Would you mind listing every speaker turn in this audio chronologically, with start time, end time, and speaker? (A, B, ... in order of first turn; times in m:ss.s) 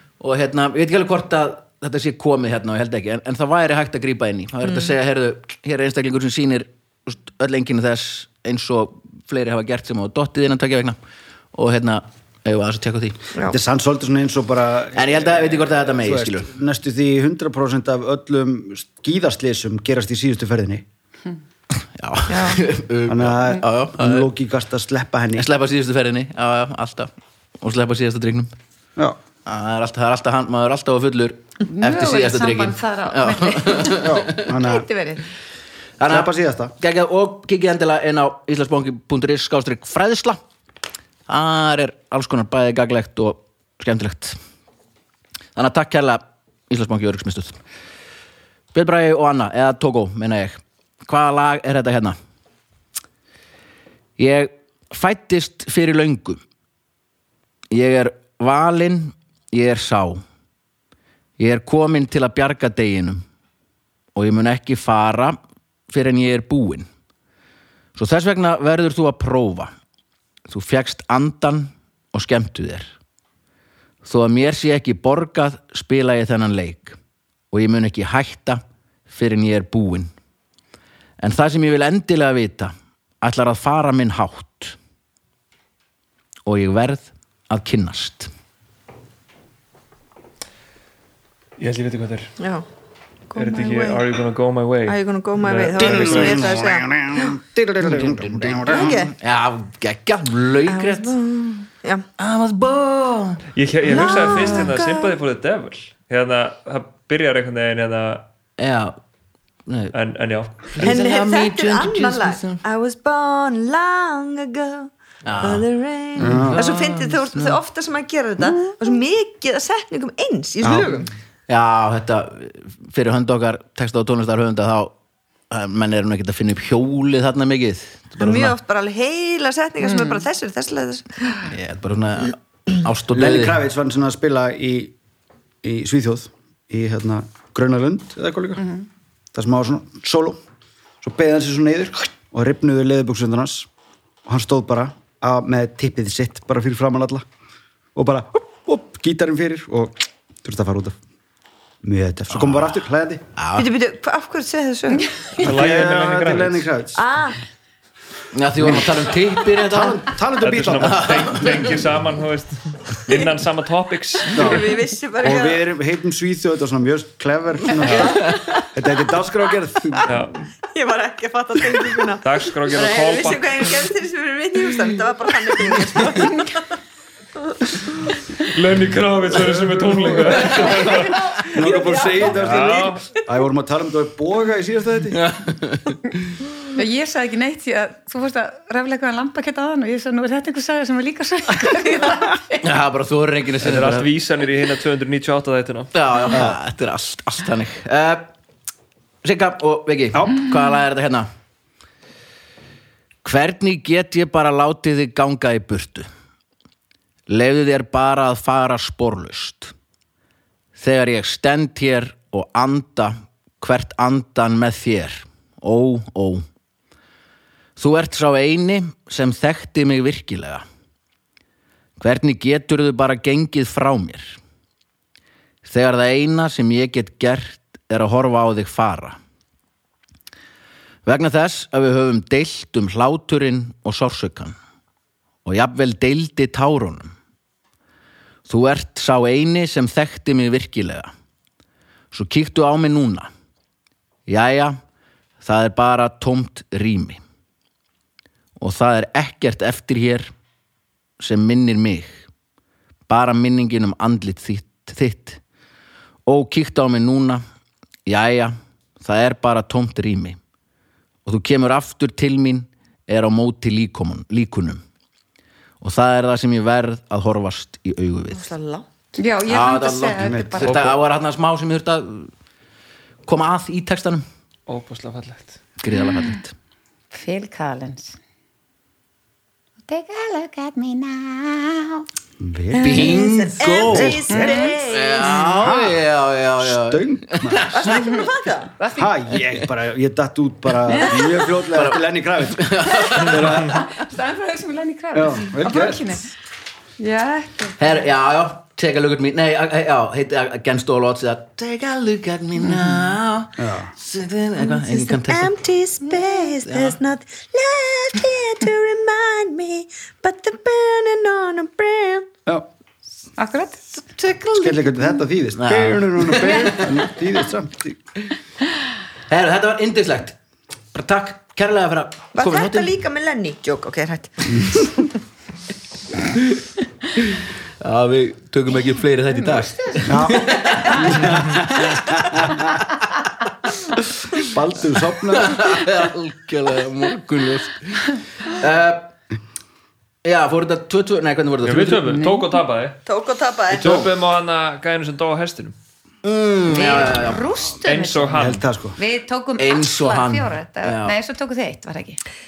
0:00.2-0:11.0 A
0:11.5-0:13.2 A
0:13.4-0:20.9 B
0:14.9-0:16.5 A
0:22.0-0:24.3 A
0:22.3-0:22.6 C
0:23.1-0:25.5 B
0:25.4-0:28.5 A
0:29.4-0:34.5 A
0:31.7-0:35.2 D
0:33.9-0:34.9 B
0:36.0-0:40.4 A
0:36.1-0:36.7 B
0:41.3-0:44.4 A
0:45.6-0:47.6 A
0:48.7-0:52.2 A
0:54.2-0:56.4 A
0:57.7-1:00.2 A
1:01.4-1:03.2 A
1:04.2-1:05.4 A
1:05.9-1:06.9 A
1:08.0-1:09.7 A
1:10.5-1:12.9 A
1:14.0-1:17.0 A
1:17.5-1:20.1 A
1:21.2-1:24.8 A
1:26.4-1:28.3 A
1:31.6-1:32.3 E
1:32.4-1:32.7 C
1:33.3-1:34.0 C
1:33.4-1:36.6 E
1:34.9-1:37.4 C
1:35.8-1:39.0 B
1:37.8-1:41.1 A
1:38.7-1:39.1 C
1:40.7-1:42.1 C
1:42.2-1:43.4 A
1:43.5-1:48.2 E
1:43.9-1:45.2 C
1:48.6-1:49.0 A
1:49.7-1:50.0 A
1:49.9-1:50.8 E
1:50.7-1:52.6 A
1:50.8-1:54.9 C
1:55.2-1:55.7 A
1:55.4-2:01.1 C
1:56.2-1:56.6 B
1:56.2-1:57.6 A
2:00.6-2:01.0 B
2:01.5-2:05.0 A
2:05.5-2:08.6 A
2:08.2-2:11.5 C
2:11.5-2:13.6 A
2:13.1-2:15.0 B
2:15.6-2:18.7 B
2:19.3-2:20.4 B
2:21.0-2:23.7 B
2:24.3-2:27.2 B
2:28.0-2:31.0 B
2:31.8-2:33.2 B
2:32.3-2:32.7 A
2:33.4-2:33.7 A
2:33.6-2:35.3 C
2:35.0-2:35.3 D
2:35.4-2:36.7 E
2:35.4-2:37.0 B
2:37.0-2:37.4 C
2:38.3-2:40.1 A
2:38.6-2:38.9 B
2:39.6-2:41.1 B
2:40.4-2:44.8 E
2:40.7-2:41.8 A
2:44.4-2:44.7 B
2:44.4-2:45.6 C
2:45.2-2:50.3 B
2:47.8-2:48.2 E
2:50.1-2:50.4 E
2:50.7-2:56.6 C
2:52.2-2:53.7 E
2:58.4-3:01.3 E
3:00.3-3:00.7 A
3:01.3-3:02.2 D
3:01.5-3:05.3 B
3:01.6-3:02.8 C
3:02.3-3:03.2 E
3:05.1-3:06.0 A
3:06.7-3:12.6 D
3:12.6-3:14.1 A
3:13.6-3:16.4 E
3:15.9-3:18.3 A
3:19.2-3:21.3 A
3:23.2-3:26.1 A
3:27.3-3:29.7 A
3:30.8-3:36.4 A
3:37.8-3:40.6 A
3:42.0-3:44.4 A
3:45.6-3:49.2 A
3:51.0-3:54.6 A
3:55.4-3:57.2 A
3:58.5-4:01.1 A
4:02.1-4:03.3 A
4:04.3-4:04.8 A
4:05.4-4:07.2 A
4:08.6-4:10.3 A
4:11.2-4:12.3 A
4:13.1-4:15.4 A
4:16.3-4:17.4 A
4:18.1-4:20.4 A
4:21.2-4:24.8 A
4:25.8-4:28.5 A
4:28.3-4:28.9 C
4:29.2-4:31.0 D
4:29.5-4:32.3 A
4:30.2-4:31.0 B
4:33.3-4:34.2 A
4:34.7-4:35.6 E
4:35.8-4:36.5 A
4:37.1-4:38.2 D
4:39.8-4:42.0 D
4:42.4-4:43.2 B
4:42.8-4:45.4 C
4:42.8-4:48.0 A
4:43.9-4:46.0 B
4:44.3-4:44.7 D
4:46.6-4:47.7 B
4:47.7-4:48.7 C
4:47.9-4:49.2 D
4:49.0-4:53.8 B
4:50.9-4:51.3 D
4:51.7-4:53.8 A
4:53.6-4:56.3 D
4:55.1-4:56.2 B
4:57.0-4:57.8 D
4:57.8-5:05.5 A
5:03.6-5:03.9 B
5:05.1-5:12.3 C
5:06.7-5:07.0 A
5:13.4-5:13.8 D
5:14.1-5:14.8 C
5:14.6-5:18.0 B
5:15.6-5:17.1 A
5:19.3-5:20.4 A
5:20.9-5:22.9 A
5:22.4-5:24.9 C
5:27.2-5:32.7 A
5:30.0-5:32.6 B
5:34.4-5:35.8 B
5:35.3-5:39.1 A
5:40.2-5:42.2 A
5:41.6-5:43.0 E
5:43.1-5:44.0 C
5:43.7-5:45.8 E
5:46.2-5:47.5 A
5:46.7-5:48.5 D
5:47.8-5:48.6 E
5:48.3-5:49.0 B
5:49.0-5:52.2 D
5:49.6-5:51.2 A